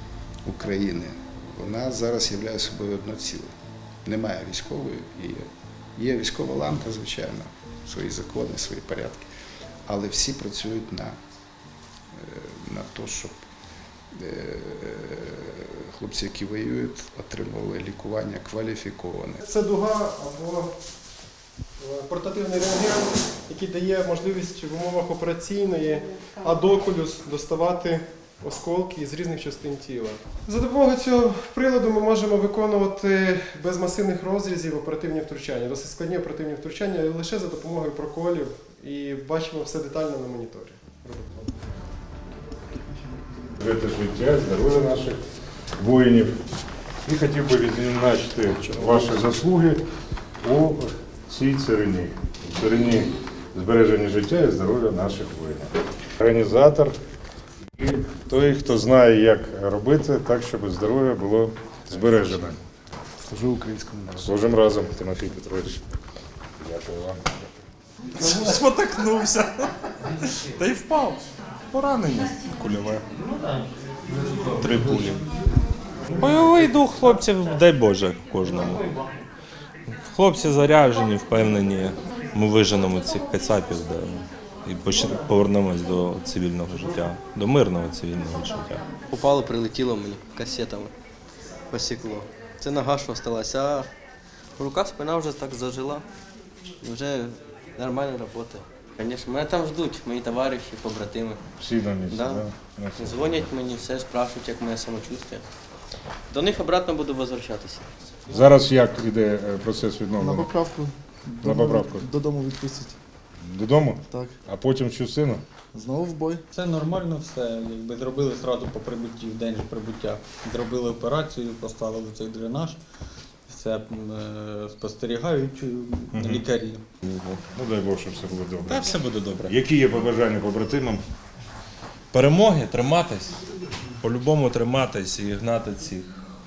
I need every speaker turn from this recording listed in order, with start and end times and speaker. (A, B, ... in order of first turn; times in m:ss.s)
0:00.4-0:03.5 A
0:04.0-0:09.3 A
0:09.9-0:11.2 A
0:12.1-0:13.4 A
0:14.1-0:19.4 A
0:19.4-0:20.8 B
0:21.8-0:41.6 B
0:43.6-0:45.2 C
0:45.8-0:46.3 C
0:47.1-0:49.8 C
0:50.4-0:56.9 C
0:57.8-1:02.6 C
1:03.2-1:04.3 A
1:04.2-1:05.8 C
1:06.6-1:07.6 C
1:08.2-1:13.0 D
1:14.5-1:15.2 D
1:16.2-1:18.9 D
1:19.9-1:28.8 D
1:29.1-1:30.9 E
1:31.7-1:33.9 E
1:34.6-1:36.1 E
1:36.8-1:41.4 E
1:41.6-1:43.5 C
1:42.1-1:45.5 E
1:46.3-1:47.9 E
1:48.3-1:50.5 C
1:50.2-1:53.0 F
1:51.4-1:52.1 C
1:53.4-1:55.4 C
1:54.1-1:54.4 F
1:55.7-1:56.4 F
1:56.5-2:02.8 G
2:03.5-2:06.8 G
2:06.1-2:06.4 C
2:07.1-2:08.9 C
2:08.7-2:09.6 D
2:09.5-2:11.0 C
2:12.1-2:13.4 D
2:14.0-2:16.2 D